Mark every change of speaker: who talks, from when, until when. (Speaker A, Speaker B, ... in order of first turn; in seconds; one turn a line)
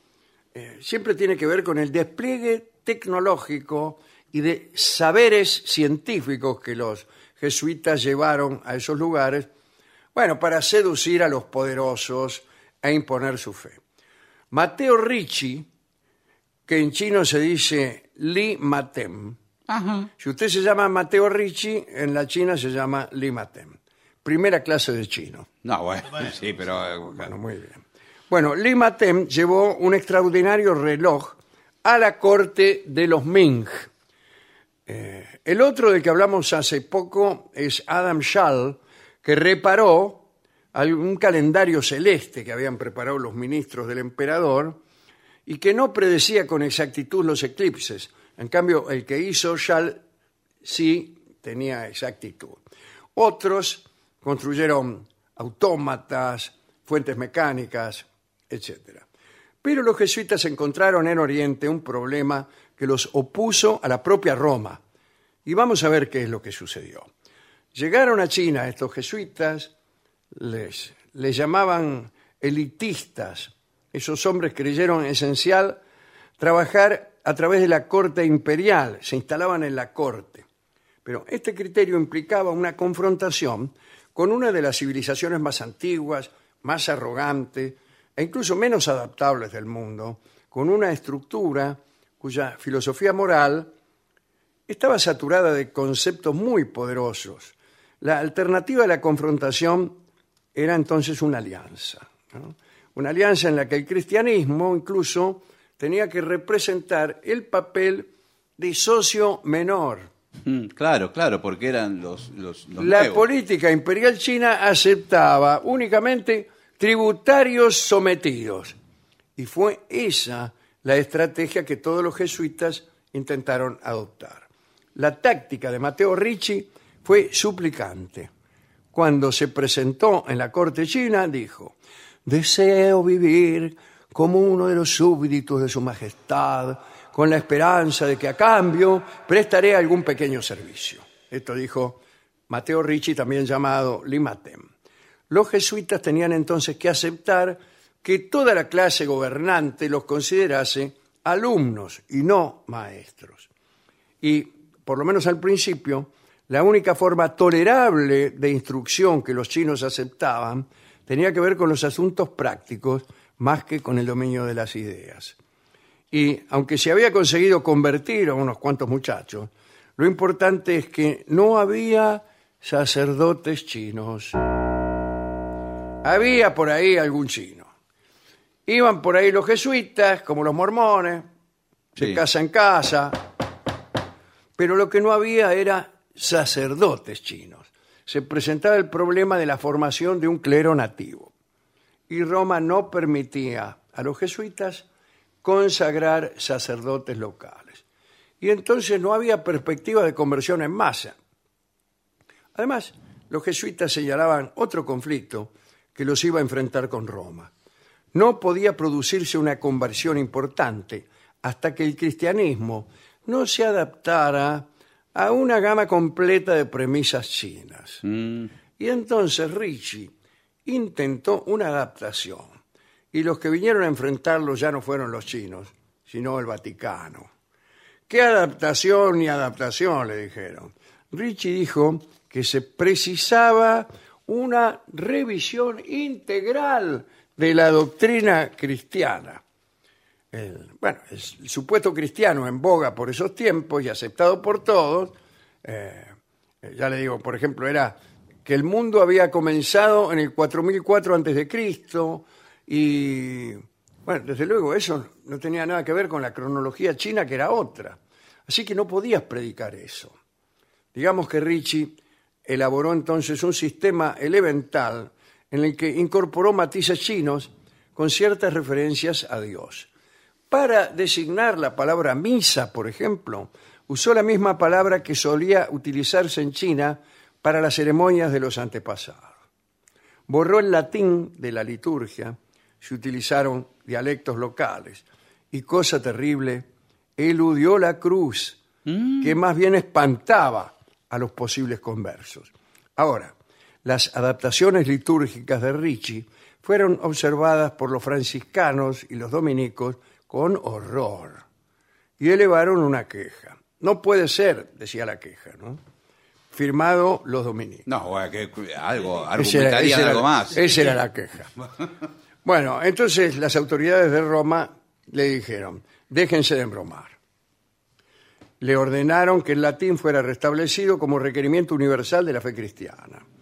Speaker A: 0.5-9.5
Speaker A: 10.1-13.8
Speaker A: 14.5-15.7
Speaker A: 16.7-19.4
Speaker B: 19.7-20.1
Speaker A: 20.2-25.5
Speaker B: 25.6-27.3
Speaker A: 27.0-33.9
Speaker A: 34.9-44.8
Speaker A: 45.5-50.0
Speaker A: 50.6-52.6
Speaker A: 53.1-59.0
Speaker A: 59.6-64.8
Speaker A: 65.4-67.1
Speaker A: 67.7-69.7
Speaker A: 70.3-75.8
Speaker A: 76.4-80.4
Speaker A: 81.0-93.7
Speaker A: 94.7-100.0
Speaker A: 100.5-110.1
Speaker B: 110.4-113.2
Speaker A: 112.8-118.7
Speaker A: 119.4-128.3
Speaker A: 128.9-144.7
Speaker A: 145.3-153.5
Speaker A: 154.2-165.3
Speaker A: 166.1-174.4
Speaker A: 176.0-177.7
Speaker A: 178.7-181.3
Speaker A: 181.9-183.2
Speaker A: 184.6-191.3
Speaker A: 192.1-194.8
Speaker A: 195.4-197.8
Speaker A: 198.4-201.1
Speaker A: 202.5-207.5
Speaker A: 208.1-218.0
Speaker B: 218.0-218.5
Speaker A: 218.8-220.1
Speaker A: 220.7-222.5
Speaker A: 223.1-227.3
Speaker A: 228.1-239.4
Speaker A: 240.3-246.1
Speaker A: 246.6-260.1
Speaker A: 260.9-269.9
Speaker A: 270.5-279.3
Speaker A: 280.3-288.6
Speaker B: 288.9-289.3
Speaker A: 289.2-301.4
Speaker A: 302.2-305.8
Speaker A: 306.5-307.8
Speaker B: 307.9-311.0
Speaker A: 309.4-311.5
Speaker A: 312.4-317.1
Speaker A: 318.6-323.2